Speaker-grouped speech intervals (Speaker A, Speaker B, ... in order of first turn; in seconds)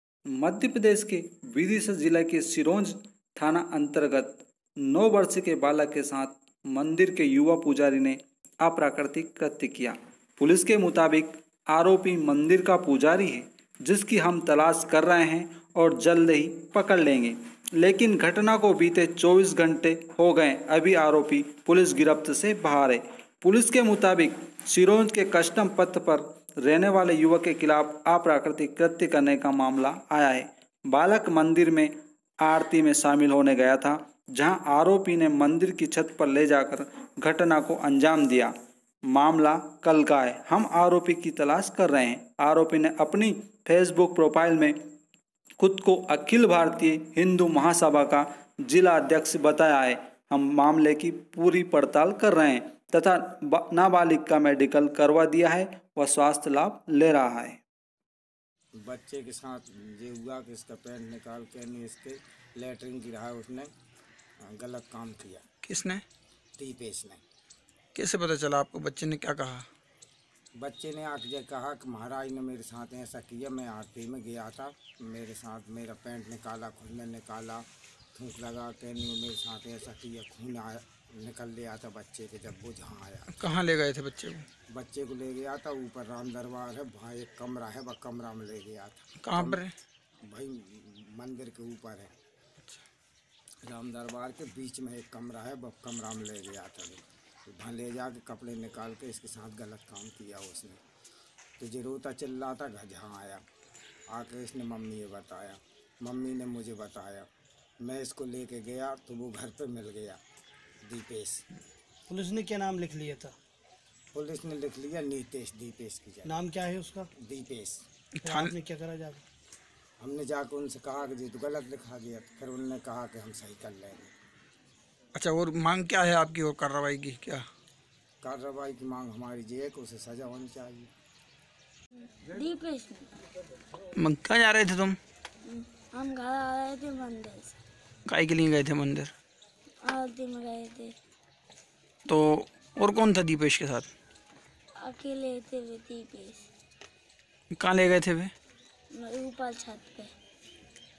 Speaker A: 0.4-31.9, 32.4-38.5, 39.1-44.7, 45.6-57.6
Speaker B: 58.8-63.7, 64.4-65.4, 66.6-67.2, 70.6-83.3, 84.7-89.6, 90.2-92.1, 93.6-100.8, 101.6-103.4, 104.1-107.3, 107.8-110.2, 110.8-111.4, 114.1-116.4, 117.2-117.8, 120.0-124.1, 128.2-130.9
Speaker C: 65.6-66.0, 67.9-69.6, 83.3-84.5, 89.2-89.7, 118.2-118.5, 125.1-127.5, 133.9-135.0, 138.1-139.1, 142.1-143.9, 147.6-148.3
Speaker D: 112.1-113.3, 116.3-117.1, 118.2-119.2
Speaker E: 132.2-133.1, 135.4-137.6, 139.8-140.9, 144.8-146.5, 148.9-150.1